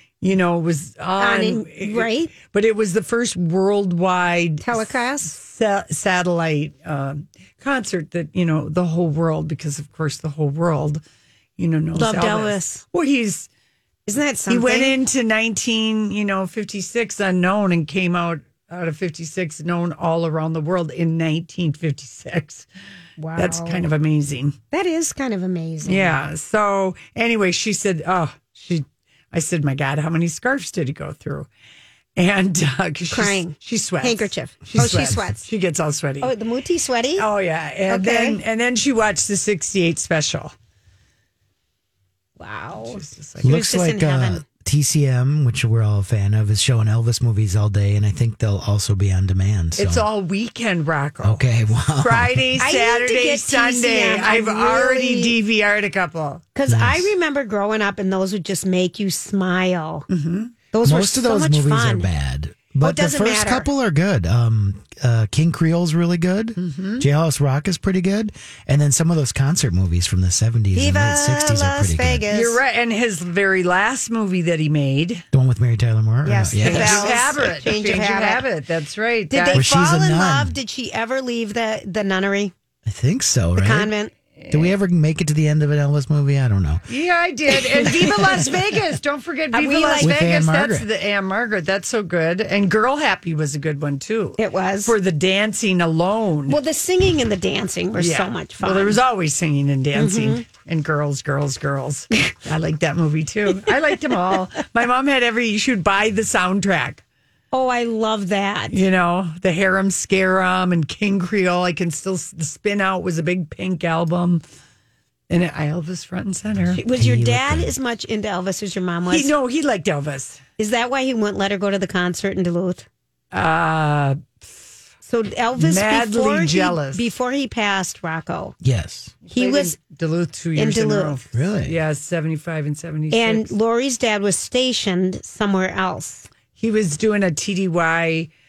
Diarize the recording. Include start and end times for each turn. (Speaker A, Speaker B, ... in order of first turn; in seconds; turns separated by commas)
Speaker A: 0.2-11.0, Speaker B: 1.2-2.3, Speaker B: 4.6-5.3, Speaker A: 11.6-13.5, Speaker B: 11.9-12.8, Speaker B: 14.1-14.9, Speaker A: 14.5-22.7, Speaker B: 23.2-23.8, Speaker A: 23.4-24.6, Speaker B: 24.7-26.1, Speaker A: 25.8-31.5, Speaker A: 32.1-36.3, Speaker B: 33.1-35.5, Speaker B: 36.2-37.3, Speaker A: 37.2-40.5, Speaker B: 37.9-38.4, Speaker B: 42.4-44.4, Speaker A: 42.8-43.6, Speaker C: 43.4-50.0, Speaker A: 49.8-56.4, Speaker C: 51.2-52.5, Speaker B: 52.6-55.3, Speaker B: 56.5-60.1, Speaker C: 56.7-57.1, Speaker A: 60.1-60.5, Speaker B: 60.7-62.1, Speaker C: 60.8-72.2, Speaker B: 62.8-63.7, Speaker A: 66.6-67.0, Speaker B: 70.7-72.6, Speaker A: 72.3-75.2, Speaker C: 75.3-77.5, Speaker B: 76.2-78.4, Speaker A: 76.6-79.6, Speaker B: 79.3-82.5, Speaker C: 79.5-80.5, Speaker C: 82.8-83.9, Speaker B: 83.5-84.1, Speaker A: 84.4-84.7, Speaker C: 84.5-86.9, Speaker A: 86.9-96.6, Speaker B: 87.5-88.1, Speaker B: 89.5-90.2, Speaker C: 90.0-90.8, Speaker B: 94.4-94.9, Speaker B: 96.5-99.0, Speaker A: 98.0-107.0, Speaker B: 100.0-100.4, Speaker B: 107.5-108.8, Speaker A: 108.7-114.4, Speaker A: 115.3-116.8, Speaker B: 116.7-119.3, Speaker C: 116.8-117.7, Speaker A: 119.1-120.4, Speaker B: 120.6-122.8, Speaker A: 123.3-124.7, Speaker B: 125.0-128.5, Speaker A: 125.6-127.0, Speaker C: 128.6-129.2, Speaker A: 129.2-133.5, Speaker B: 129.3-129.8, Speaker B: 130.6-131.1, Speaker C: 131.3-131.8, Speaker B: 133.1-136.3, Speaker A: 136.6-138.3